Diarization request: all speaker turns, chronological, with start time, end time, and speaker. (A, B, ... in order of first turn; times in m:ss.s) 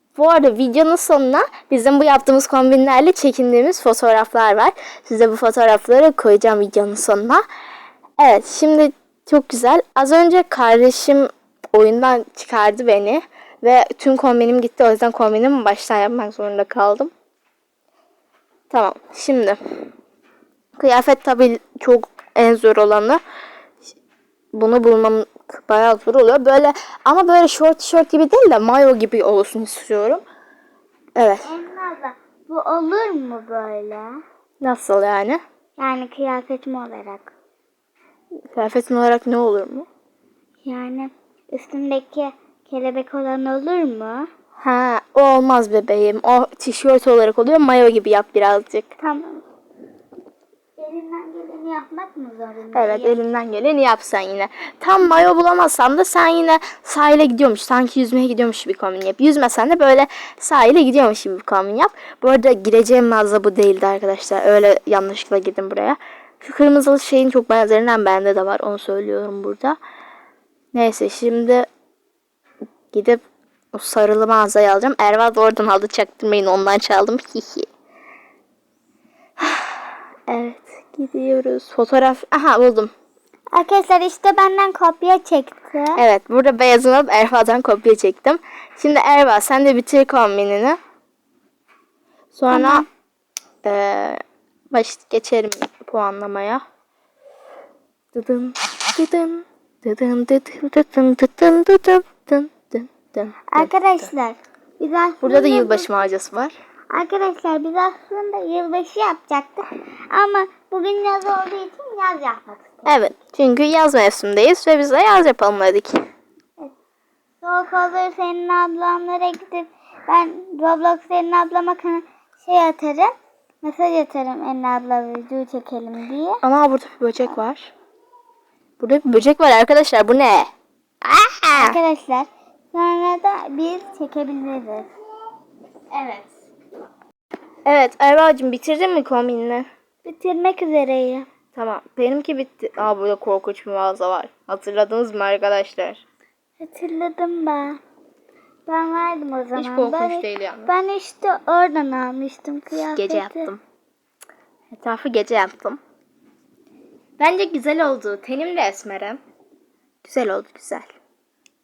0:00.2-0:07.4 A
0:08.2-0:17.1 A
0:18.7-0:19.6 A
0:20.8-0:23.2 A
0:24.5-0:30.2 A
0:31.2-0:31.4 A
0:31.4-0:34.1 B
0:34.6-0:35.4 A
0:35.8-0:37.3 B
0:38.5-0:39.9 A
0:40.6-0:44.3 B
0:44.6-0:48.9 A
0:49.0-0:49.4 B
0:50.8-0:53.2 B
0:52.7-1:09.8 A
1:10.7-1:11.7 A
1:12.9-1:17.7 A
1:19.4-1:19.7 A
1:20.3-1:22.9 A
1:23.5-1:26.0 B
1:26.0-1:30.8 A
1:32.3-1:32.8 A
1:32.5-1:32.8 B
1:33.6-1:36.6 A
1:38.1-1:44.0 A
1:43.5-1:45.9 B
1:45.2-1:46.5 A
1:46.9-1:53.1 B
1:52.8-1:56.0 A
1:57.4-2:06.4 B
2:06.4-2:07.7 A
2:08.8-2:10.5 A
2:11.0-2:11.8 A
2:11.5-2:14.9 B
2:15.9-2:16.3 A
2:17.6-2:19.7 A
2:20.0-2:21.3 B
2:21.5-2:26.0 A
2:26.6-2:27.8 B
2:28.7-2:33.5 B
2:29.6-2:30.7 A
2:32.9-2:33.6 A
2:34.7-2:35.8 A
2:37.2-2:39.2 A
2:40.0-2:40.9 A